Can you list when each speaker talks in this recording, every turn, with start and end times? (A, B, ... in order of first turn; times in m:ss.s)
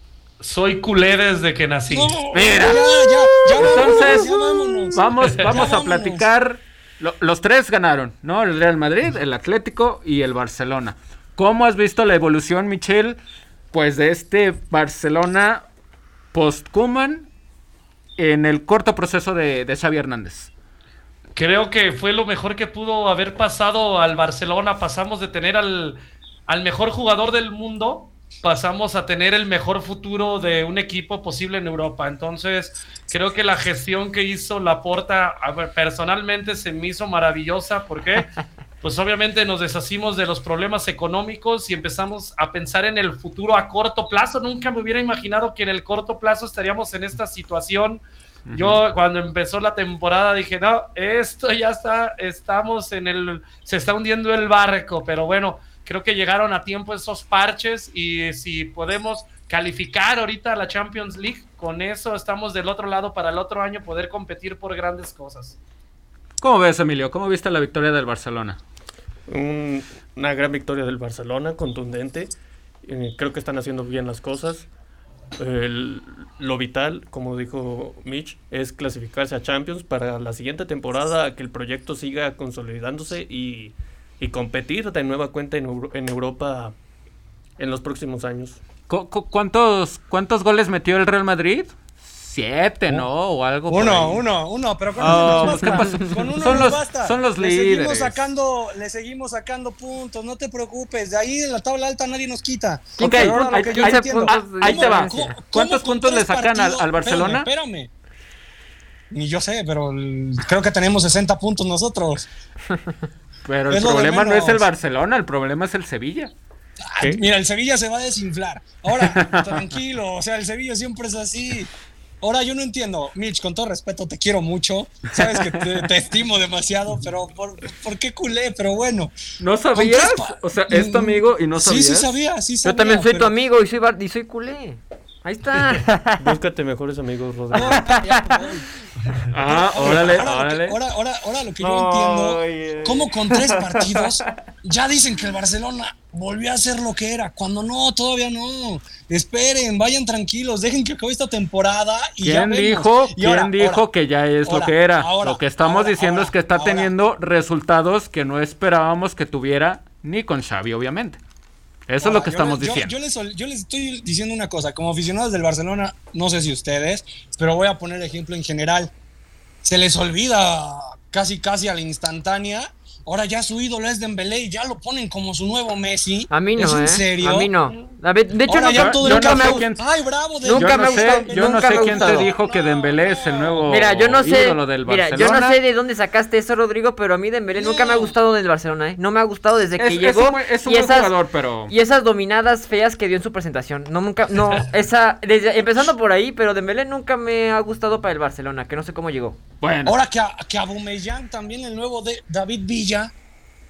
0:00.4-0:02.2 A
0:01.9-0:06.2 B
0:02.3-0:04.4 C
0:04.9-0:13.2 C
0:13.7-0:15.6 C
0:16.3-0:17.3 C
0:18.2-0:20.5 C
0:21.4-0:38.3 A
0:38.8-1:05.6 A
0:48.5-0:48.8 C
1:06.4-1:08.6 C
1:09.3-1:14.7 D
1:15.4-1:26.8 D
1:27.6-1:28.6 D
1:28.9-1:34.2 C
1:33.7-1:47.9 B
1:35.0-1:38.2 C
1:35.7-1:36.0 E
1:43.0-1:45.3 E
1:43.0-1:47.5 C
1:49.1-1:52.3 B
1:53.4-1:56.3 C
1:53.7-1:54.7 B
1:56.8-2:01.7 B
1:59.0-1:59.8 C
2:02.2-2:09.1 B
2:09.4-2:12.1 C
2:09.8-2:13.3 B
2:12.6-2:16.3 E
2:16.2-2:18.0 D
2:17.5-2:18.7 B
2:17.7-2:18.6 E
2:19.3-2:20.8 C
2:19.4-2:33.8 B
2:21.6-2:24.0 E
2:32.2-2:41.2 C
2:34.4-2:36.9 B
2:41.9-2:42.9 C
2:42.0-2:48.9 B
2:49.6-2:57.5 B
2:56.3-2:59.7 E
2:58.4-3:03.8 B
2:58.7-2:59.8 C
3:00.4-3:02.3 E
3:00.6-3:05.6 C
3:03.7-3:11.1 E
3:07.5-3:08.1 B
3:09.8-3:11.7 C
3:11.7-3:19.4 E
3:19.6-3:20.0 C
3:19.8-3:23.1 B